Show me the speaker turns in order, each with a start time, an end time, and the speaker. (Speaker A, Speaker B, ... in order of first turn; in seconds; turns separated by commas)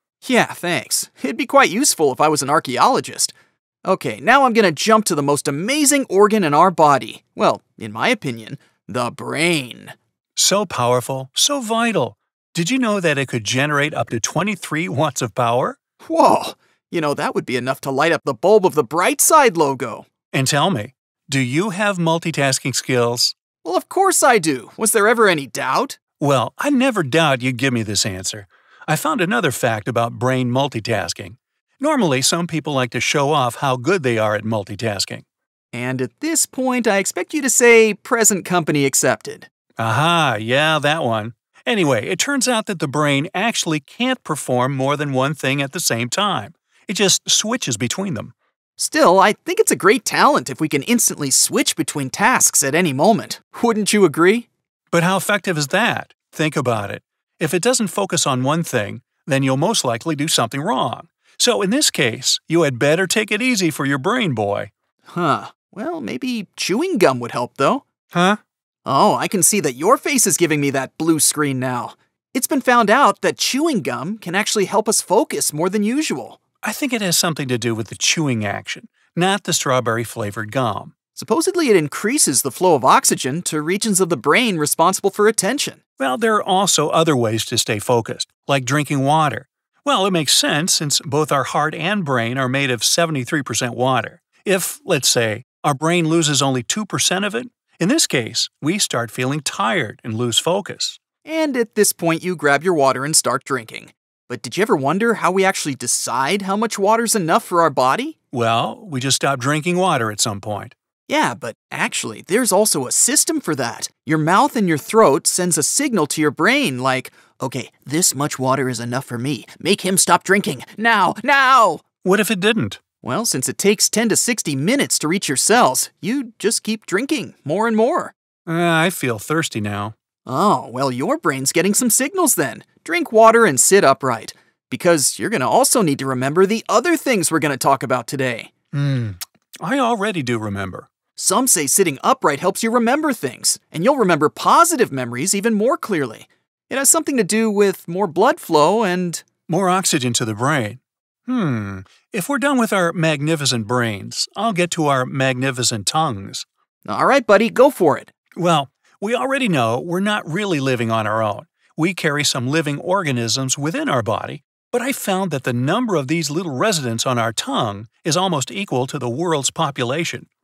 Speaker A: 0.2-3.3, Speaker A: 3.9-9.9, Speaker B: 10.4-15.8, Speaker A: 16.0-20.1, Speaker B: 20.3-23.4, Speaker A: 23.6-26.0, Speaker B: 26.2-35.2, Speaker A: 35.7-39.5, Speaker B: 39.8-48.3, Speaker A: 48.8-54.5, Speaker B: 54.9-64.7, Speaker A: 65.1-67.8, Speaker B: 68.1-68.4, Speaker A: 68.9-76.4, Speaker B: 76.6-80.9, Speaker A: 81.2-85.8, Speaker B: 86.0-101.0, Speaker A: 101.2-108.2, Speaker B: 108.3-110.8, Speaker A: 111.1-121.8, Speaker B: 122.0-122.8, Speaker A: 123.0-128.1, Speaker B: 128.5-129.9, Speaker A: 130.3-138.5, Speaker B: 138.7-140.9, Speaker A: 141.2-149.3, Speaker B: 149.5-156.5, Speaker A: 156.8-158.1, Speaker B: 158.4-170.3